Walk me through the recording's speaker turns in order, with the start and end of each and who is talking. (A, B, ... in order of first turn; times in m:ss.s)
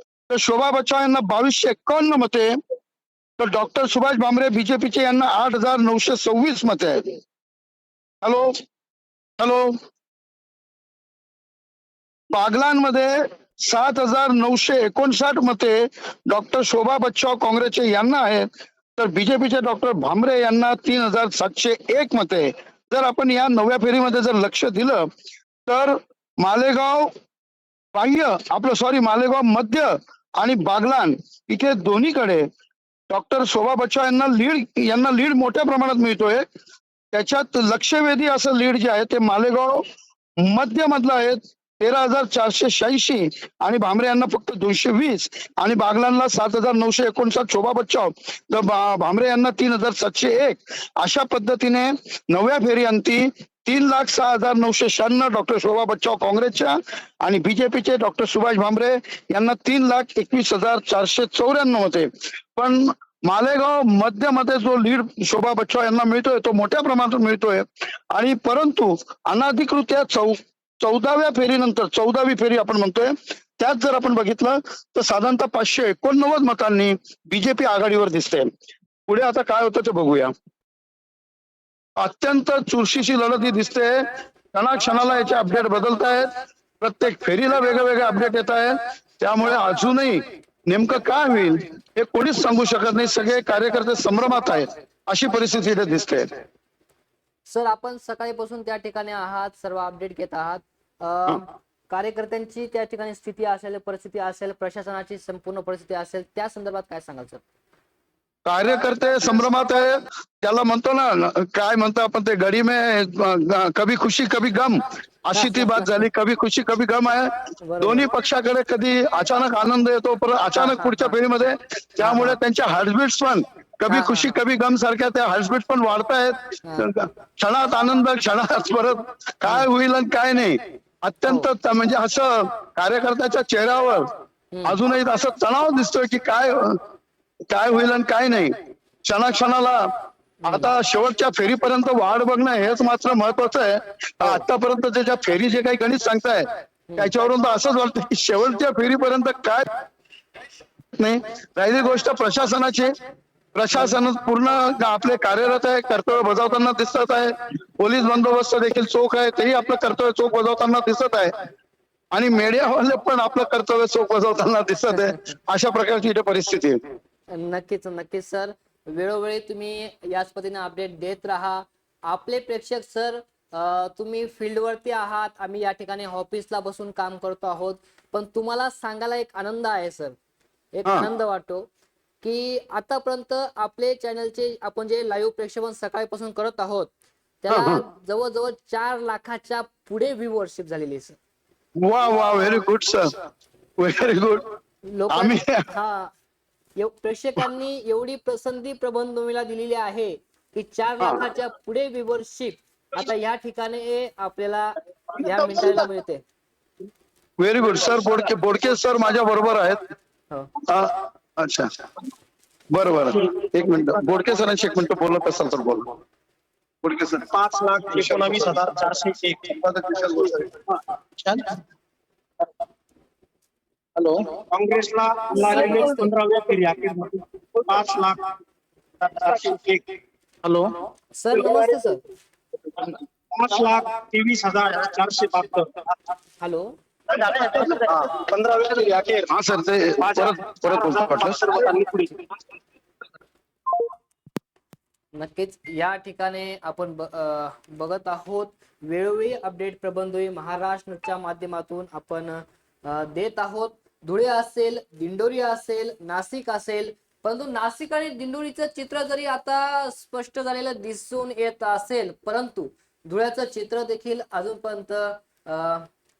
0:00.3-0:02.5 A
0:03.4-0:07.2 A
0:08.2-0:08.6 A
0:09.4-0:09.7 A
0:12.3-0:25.1 A
0:25.7-0:27.1 A
0:27.9-0:32.4 A
0:33.1-0:36.4 A
0:37.1-0:39.8 A
0:40.4-1:18.5 A
1:19.1-1:20.3 A
1:22.0-1:26.3 A
1:26.8-1:36.3 A
1:37.4-1:47.4 B
1:48.4-2:14.1 A
1:55.3-1:56.1 B
1:57.6-1:58.1 B
2:00.5-2:01.1 B
2:02.0-2:02.4 B
2:03.9-2:04.3 B
2:06.6-2:06.9 B
2:14.5-2:14.8 B
2:14.6-2:16.8 A
2:17.5-2:18.5 A
2:19.0-2:19.9 A
2:20.4-2:20.7 B
2:20.4-2:26.4 A
2:26.9-2:27.2 B
2:27.0-2:29.6 A
2:31.0-2:32.9 A
2:33.5-2:41.3 A
2:33.7-2:34.0 B
2:42.1-2:46.8 A
2:44.9-2:45.4 B
2:47.3-3:00.2 B
3:00.7-3:01.7 B
3:02.2-3:06.9 B
3:07.4-3:11.2 B
3:07.5-3:07.8 A
3:11.8-3:13.1 A
3:13.8-3:14.4 A
3:14.9-3:16.1 B
3:15.1-3:15.6 A
3:16.8-3:26.2 B
3:27.4-3:29.8 A
3:30.7-3:31.7 A
3:32.7-3:35.9 A
3:36.8-3:37.3 A
3:37.3-3:39.6 C
3:37.9-3:38.6 A
3:39.6-3:40.4 A
3:44.5-3:48.2 C
3:45.3-3:46.1 B
3:49.0-3:49.8 C
3:51.2-3:52.0 B
3:53.3-3:55.9 C
3:56.4-3:56.7 B
3:57.1-3:59.3 C
3:59.3-4:01.4 A
4:00.0-4:02.2 C
4:05.1-4:25.9 B